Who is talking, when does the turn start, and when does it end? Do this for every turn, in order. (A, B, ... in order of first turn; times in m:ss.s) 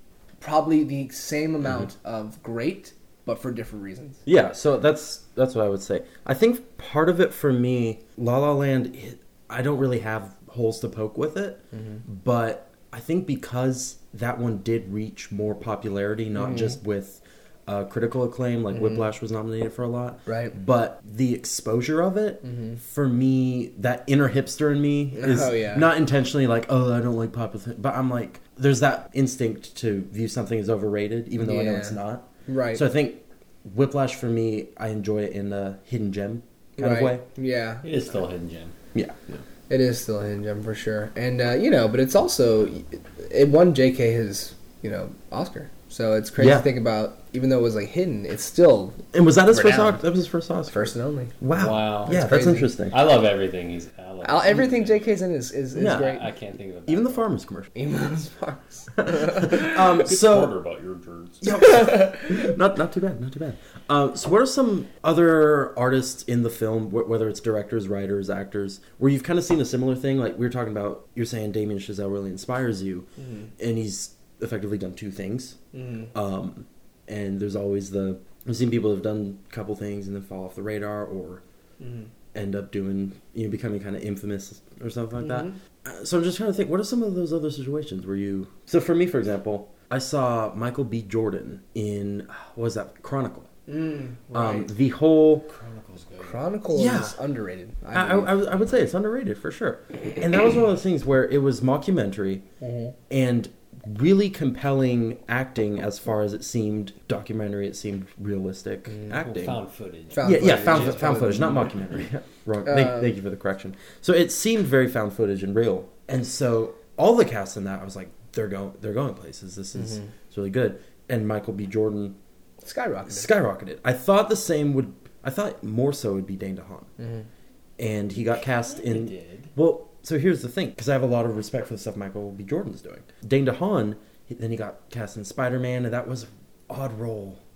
0:00.4-0:04.2 A
0:04.2-0:37.2 B
0:11.7-0:12.0 A
0:16.4-0:16.8 A
0:18.7-0:19.0 A
0:20.3-0:20.6 A
0:22.4-0:22.8 A
0:25.1-0:25.9 A
0:31.4-0:32.8 A
0:36.8-0:37.8 A
0:37.8-0:38.7 C
0:38.9-0:39.4 B
0:39.7-0:50.0 A
0:46.4-0:46.7 B
0:49.1-0:52.9 B
0:50.7-0:51.4 A
0:51.5-0:55.1 C
0:52.0-0:52.7 A
0:54.2-0:56.2 A
0:55.7-0:56.2 B
0:55.8-0:57.3 C
0:56.8-0:57.7 B
0:57.7-0:59.8 A
0:59.0-1:00.6 B
1:00.0-1:01.4 C
1:01.4-1:15.6 B
1:01.6-1:02.5 A
1:13.2-1:13.5 A
1:15.7-1:16.1 A
1:16.1-1:21.4 B
1:21.8-1:22.1 A
1:22.3-1:33.5 B
1:25.2-1:25.5 A
1:33.7-1:34.7 A
1:34.3-1:35.5 B
1:35.5-1:36.4 C
1:36.2-1:38.4 A
1:36.7-1:37.2 B
1:37.9-1:42.4 B
1:42.6-1:42.9 A
1:43.1-1:49.6 B
1:48.9-1:49.2 A
1:49.1-1:51.7 C
1:50.1-1:51.7 A
1:50.2-2:02.2 B
1:52.6-1:53.1 A
1:59.7-2:00.1 A
2:02.6-2:03.3 A
2:03.1-2:06.9 B
2:07.0-2:07.2 A
2:07.8-2:17.4 B
2:08.6-2:09.5 C